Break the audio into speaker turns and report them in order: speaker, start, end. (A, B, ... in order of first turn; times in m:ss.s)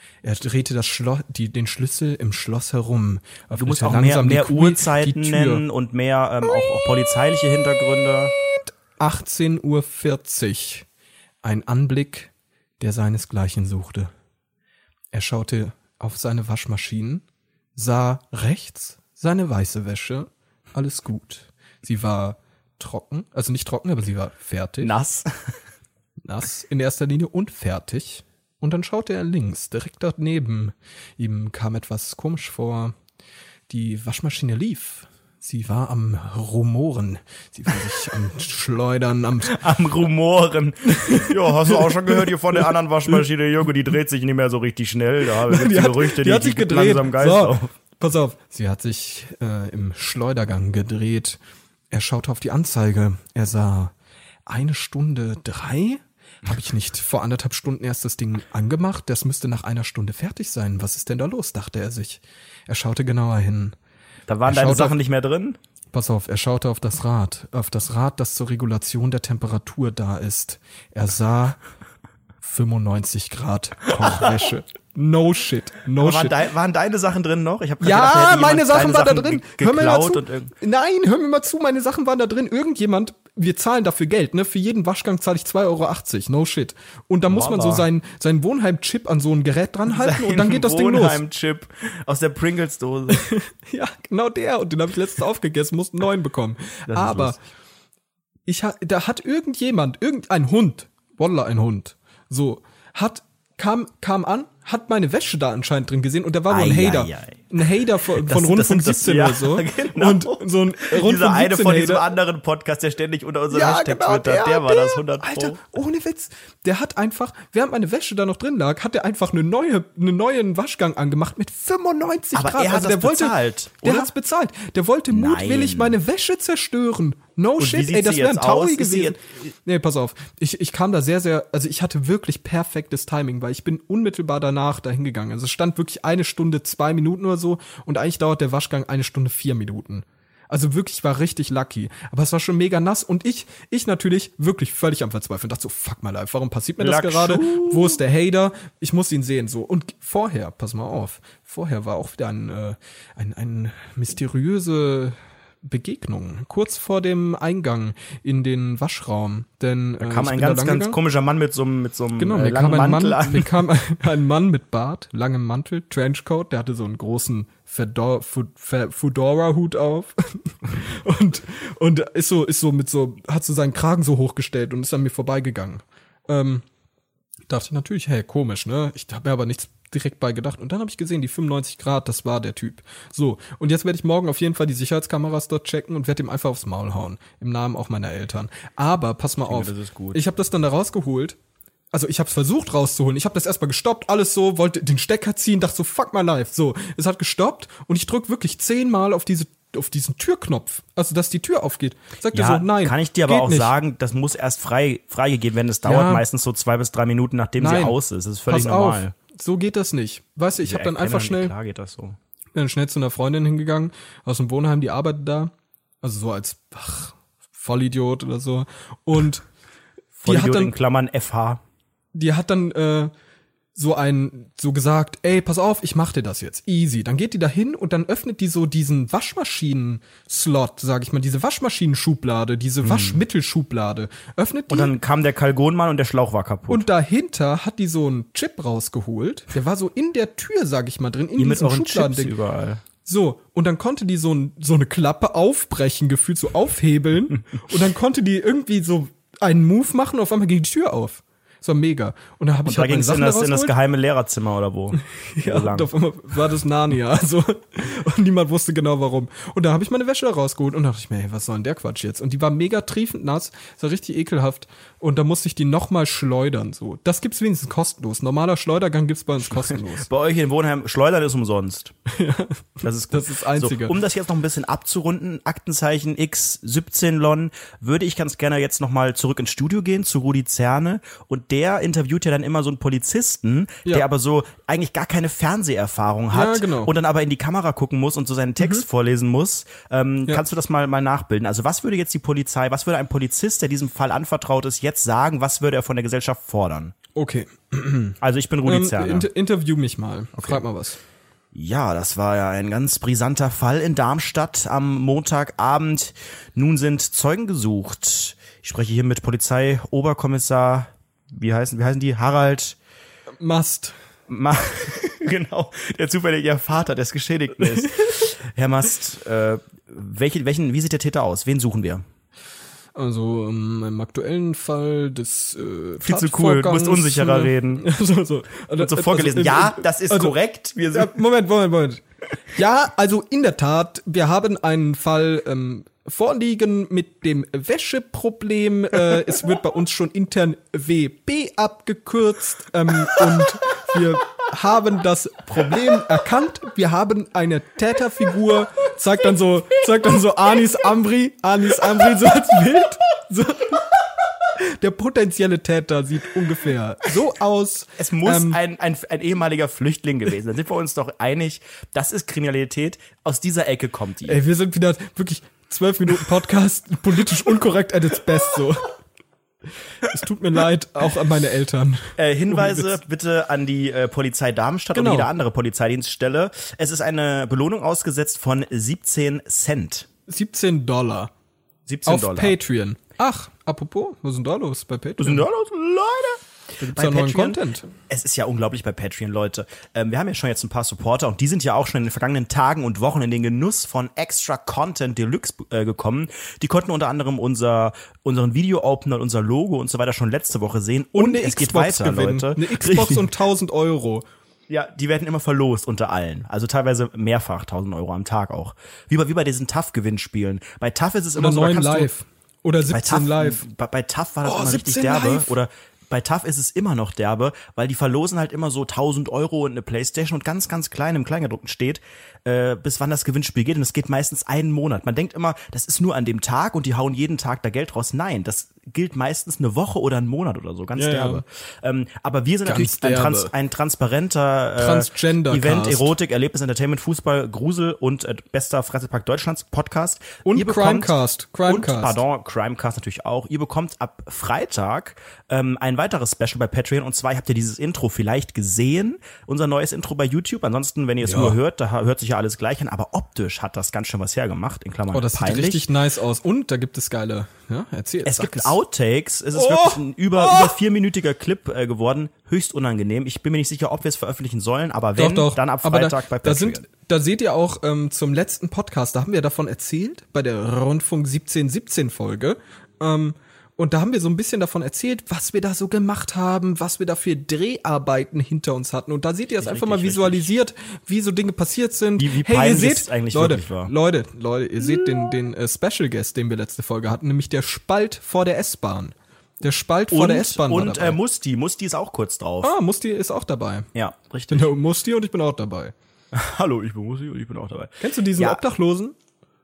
0:00.2-0:05.6 A
0:03.6-0:08.3 B
0:08.3-0:10.9 A
0:11.4-0:14.1 A
0:15.1-0:17.2 A
0:17.8-0:25.0 A
0:24.8-0:25.3 B
0:26.2-0:33.0 A
0:33.7-0:39.6 A
0:39.5-0:47.7 B
0:40.9-0:42.7 A
0:45.4-0:51.4 A
0:51.9-0:53.9 A
0:54.5-1:03.8 A
1:04.3-1:05.6 B
1:04.5-1:05.0 A
1:05.9-1:11.6 A
1:12.4-1:16.4 A
1:14.0-1:14.5 B
1:16.0-1:20.5 B
1:17.8-1:31.2 A
1:27.3-1:27.9 B
1:29.9-1:33.3 B
1:33.1-1:37.4 A
1:36.9-1:37.4 B
1:38.5-1:52.1 A
1:46.5-1:55.6 B
1:53.5-2:41.0 A
2:02.4-2:04.1 B
2:05.1-2:06.0 B
2:07.6-2:09.4 B
2:26.8-2:28.0 B
2:40.0-2:43.6 B
2:42.2-2:56.6 A
2:57.5-3:11.4 A
3:09.5-3:10.2 B
3:11.9-3:23.7 A
3:22.3-3:29.1 B
3:25.8-3:26.2 A
3:27.6-3:28.0 A
3:28.5-3:31.5 A
3:30.6-3:32.2 B
3:32.6-3:39.4 A
3:40.2-3:41.6 B
3:40.3-3:40.7 A
3:42.1-3:43.1 A
3:43.8-3:54.9 A
3:52.8-3:53.2 B
3:54.7-3:56.9 B
3:56.7-4:02.3 A
4:01.4-4:02.8 B
4:03.0-4:13.7 A
4:12.6-4:15.9 B
4:14.9-4:30.1 A
4:29.5-4:31.9 B
4:32.1-4:34.0 A
4:32.8-4:56.9 B
4:46.3-4:46.9 A
4:57.2-5:01.0 A
4:58.2-4:59.3 B
5:01.5-5:12.8 B
5:13.4-5:13.9 A
5:14.3-5:22.0 B
5:23.0-5:30.4 A
5:26.0-5:27.9 B
5:28.8-5:31.2 B
5:30.9-5:53.9 A
5:39.1-5:39.4 B
5:54.6-5:58.6 A
5:58.0-6:04.4 B
6:04.3-6:09.0 A
6:10.0-6:13.0 A
6:12.2-6:20.1 B
6:14.9-6:15.3 A
6:20.3-6:21.3 A
6:21.9-6:22.6 B
6:22.0-6:25.5 A
6:25.2-6:43.3 B
6:26.8-6:27.9 A
6:41.2-6:44.2 A
6:44.7-6:52.1 B
6:51.4-6:53.6 A
6:52.9-7:35.9 B
6:54.4-6:55.6 A
7:11.0-7:11.4 A
7:12.6-7:13.5 A
7:14.8-7:16.1 A
7:20.4-7:22.2 A
7:31.2-7:31.6 A
7:35.1-7:38.8 A
7:38.2-7:46.8 B
7:39.5-7:40.8 A
7:45.2-8:11.2 A
7:59.6-8:00.5 B
8:02.2-8:03.9 B
8:10.1-8:12.8 B
8:12.6-8:13.9 A
8:13.9-8:14.7 B
8:14.5-8:15.9 A
8:16.3-8:18.6 B
8:18.0-8:19.2 A